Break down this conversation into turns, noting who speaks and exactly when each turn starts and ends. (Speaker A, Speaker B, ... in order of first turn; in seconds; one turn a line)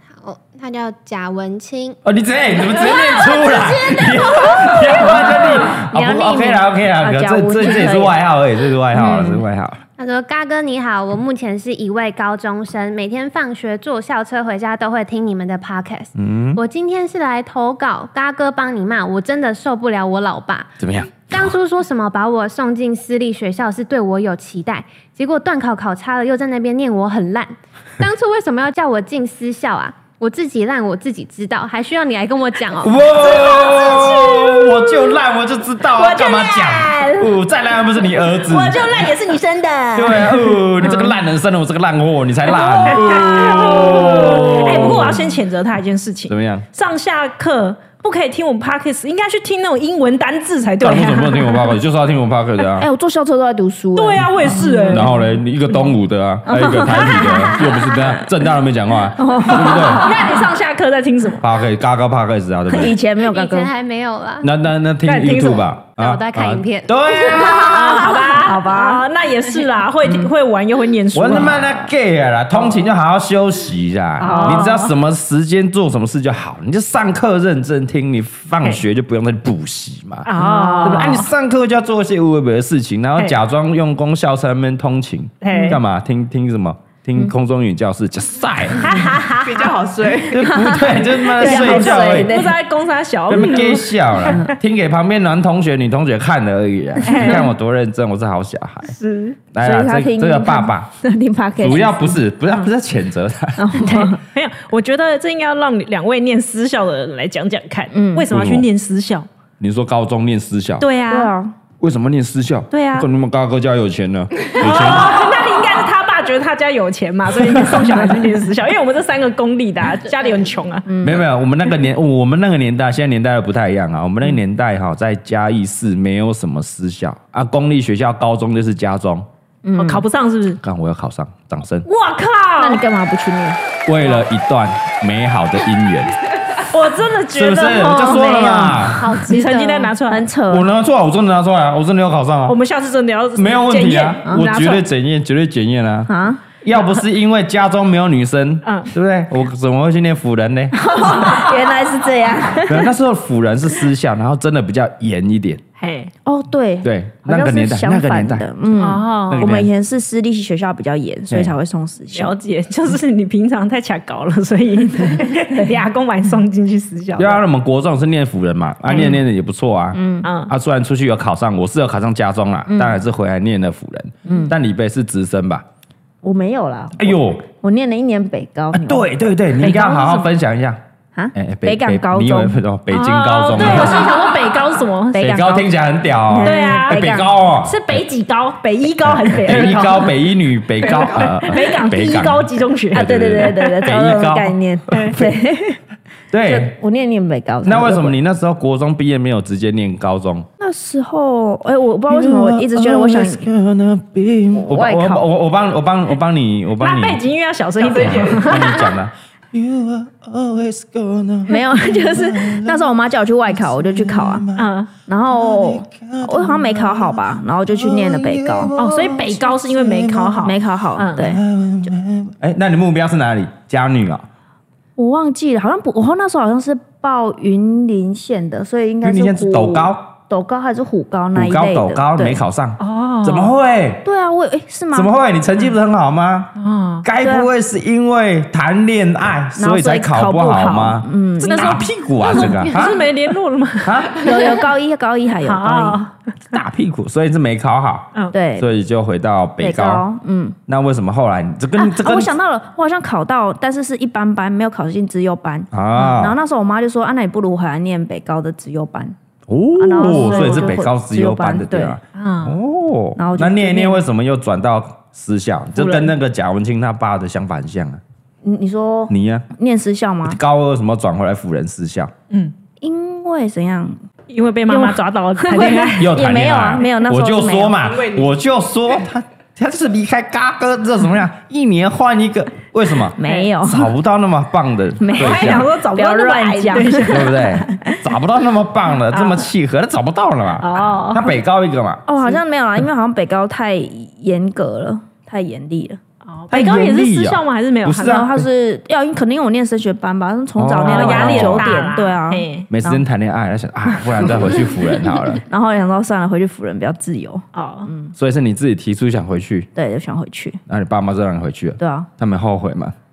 Speaker A: 0.2-2.0
Speaker B: 2.0-9.8
Speaker A: 2.9-4.8
Speaker C: 4.7-8.2
Speaker C: 8.9-9.4
Speaker A: 10.0-20.7
Speaker B: 16.1-16.6
Speaker B: 20.8-21.5
Speaker A: 21.3-33.2
Speaker B: 32.8-38.9
Speaker D: 33.2-35.0
Speaker D: 35.9-37.3
Speaker D: 38.4-41.1
Speaker B: 39.9-45.3
Speaker D: 42.5-51.7
Speaker B: 46.3-46.6
Speaker B: 50.8-52.9
Speaker C: 52.8-55.4
Speaker D: 54.0-55.2
Speaker B: 54.9-60.2
Speaker C: 56.5-57.6
Speaker D: 57.1-57.6
Speaker C: 59.2-60.2
Speaker D: 59.5-61.4
Speaker B: 61.4-63.0
Speaker C: 62.7-63.7
Speaker A: 63.2-64.5
Speaker B: 64.4-68.0
Speaker D: 65.1-65.7
Speaker A: 66.0-66.9
Speaker D: 67.2-71.8
Speaker C: 67.3-69.0
Speaker B: 71.1-80.3
Speaker C: 74.2-74.8
Speaker D: 74.2-74.9
Speaker D: 80.2-81.3
Speaker C: 80.4-81.2
Speaker B: 80.8-89.0
Speaker D: 85.4-85.8
Speaker C: 85.5-85.8
Speaker D: 88.8-89.8
Speaker E: 89.4-90.4
Speaker B: 90.2-92.4
Speaker C: 90.4-92.6
Speaker D: 91.4-94.4
Speaker B: 93.3-99.0
Speaker D: 97.0-97.5
Speaker D: 98.9-99.4
Speaker B: 99.5-100.9
Speaker C: 99.6-102.2
Speaker B: 101.6-103.7
Speaker C: 103.6-104.2
Speaker D: 103.8-109.3
Speaker C: 107.9-108.3
Speaker B: 108.3-108.7
Speaker B: 109.6-110.8
Speaker D: 110.8-111.3
Speaker C: 111.1-111.5
Speaker B: 111.8-115.2
Speaker D: 112.7-113.1
Speaker D: 114.5-120.9
Speaker C: 120.9-121.2
Speaker B: 121.0-129.3
Speaker C: 129.6-130.0
Speaker D: 129.8-130.6
Speaker B: 130.6-131.9
Speaker D: 131.9-132.8
Speaker C: 132.6-133.6
Speaker B: 133.9-136.2
Speaker D: 136.7-140.3
Speaker B: 137.3-139.1
Speaker C: 137.8-140.7
Speaker A: 139.0-139.9
Speaker B: 140.5-142.6
Speaker D: 142.5-144.8
Speaker B: 143.4-146.1
Speaker C: 146.1-146.4
Speaker B: 146.6-151.5
Speaker D: 148.6-148.9
Speaker C: 150.7-152.9
Speaker B: 152.5-155.6
Speaker D: 155.8-156.1
Speaker C: 156.2-162.3
Speaker B: 156.8-158.5
Speaker D: 158.8-159.5
Speaker B: 159.3-159.7
Speaker D: 162.1-167.4
Speaker B: 167.2-175.6
Speaker D: 168.9-169.2
Speaker C: 169.9-170.3
Speaker D: 170.2-170.5
Speaker C: 172.7-173.0
Speaker C: 174.2-174.5
Speaker C: 176.2-179.0
Speaker B: 177.0-177.4
Speaker B: 178.7-180.8
Speaker D: 179.6-180.3
Speaker C: 181.2-182.6
Speaker B: 181.3-184.2
Speaker D: 182.9-185.5
Speaker C: 185.1-185.7
Speaker B: 185.2-188.0
Speaker C: 186.3-187.3
Speaker D: 186.4-190.1
Speaker B: 189.0-195.3
Speaker D: 190.8-193.9
Speaker E: 191.0-191.2
Speaker C: 192.9-195.8
Speaker B: 196.3-196.7
Speaker C: 196.4-198.2
Speaker B: 197.6-200.5
Speaker C: 200.6-203.4
Speaker B: 202.1-207.2
Speaker C: 204.5-205.2
Speaker D: 206.8-208.9
Speaker E: 207.8-208.5
Speaker B: 207.9-212.9
Speaker C: 211.5-214.4
Speaker B: 213.6-214.7
Speaker D: 214.6-214.9
Speaker C: 215.1-218.7
Speaker B: 215.3-220.5
Speaker D: 218.8-221.4
Speaker C: 220.4-221.4
Speaker B: 221.2-224.2
Speaker C: 225.0-232.4
Speaker B: 229.0-230.1
Speaker B: 231.3-234.0
Speaker D: 232.8-233.5
Speaker C: 234.0-235.1
Speaker B: 234.9-236.5
Speaker D: 236.6-237.1
Speaker B: 237.0-243.1
Speaker C: 237.2-237.5
Speaker C: 239.6-241.8
Speaker D: 241.4-244.6
Speaker B: 243.8-244.2
Speaker C: 244.2-246.0
Speaker D: 245.4-246.3
Speaker B: 246.5-250.1
Speaker C: 248.3-248.7
Speaker C: 249.6-250.6
Speaker B: 250.7-252.3
Speaker C: 251.8-259.1
Speaker B: 255.7-256.4
Speaker B: 259.5-268.0
Speaker C: 259.8-261.9
Speaker D: 260.0-260.8
Speaker D: 262.1-262.6
Speaker C: 263.1-264.0
Speaker D: 265.8-266.1
Speaker C: 268.4-270.4
Speaker B: 269.1-269.5
Speaker B: 270.2-272.1
Speaker C: 272.8-274.0
Speaker D: 274.3-276.1
Speaker C: 274.7-277.8
Speaker B: 276.0-285.7
Speaker E: 277.8-278.3
Speaker C: 283.2-283.9
Speaker D: 283.2-283.5
Speaker C: 285.0-288.0
Speaker D: 285.1-287.7
Speaker B: 287.1-292.1
Speaker D: 289.1-289.4
Speaker D: 290.6-291.3
Speaker C: 292.1-296.0
Speaker D: 296.3-298.3
Speaker B: 296.5-298.5
Speaker C: 297.9-303.0
Speaker B: 300.6-301.9
Speaker D: 300.8-302.7
Speaker B: 302.7-305.4
Speaker C: 305.3-308.1
Speaker D: 307.6-307.9
Speaker B: 308.2-309.7
Speaker C: 309.7-310.6
Speaker B: 310.7-312.9
Speaker C: 311.8-312.1